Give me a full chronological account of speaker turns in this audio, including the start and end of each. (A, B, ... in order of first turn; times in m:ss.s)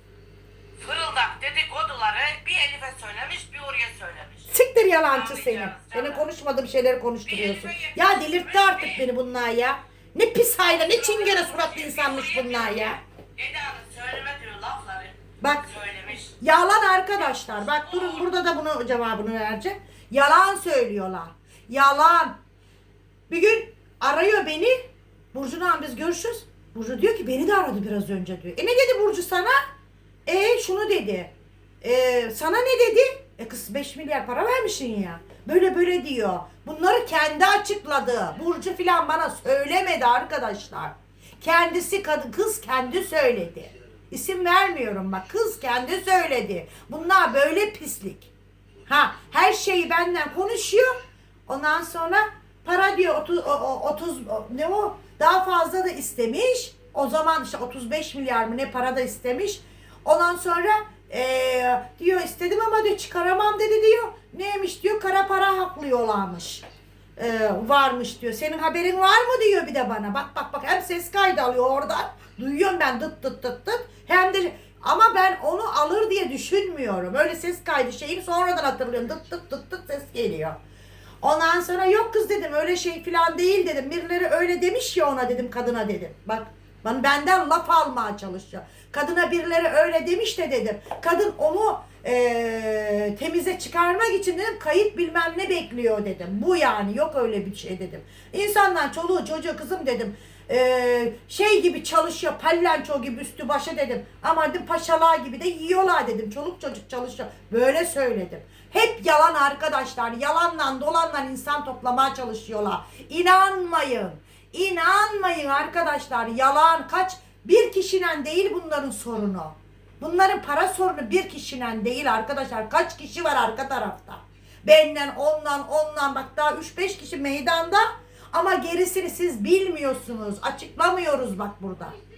0:00.8-0:04.5 A
0:04.5-0:13.0 B
0:05.1-0:06.2 A
0:07.3-0:09.1 A
0:10.6-0:16.3 A
0:15.4-0:15.6 B
0:16.4-0:22.4 B
0:17.8-0:18.3 A
0:23.3-0:24.8 B
0:25.3-0:29.6 B
0:30.2-0:48.3 B
0:48.9-1:06.6 B
1:07.2-1:20.6 B
1:21.2-2:12.0 B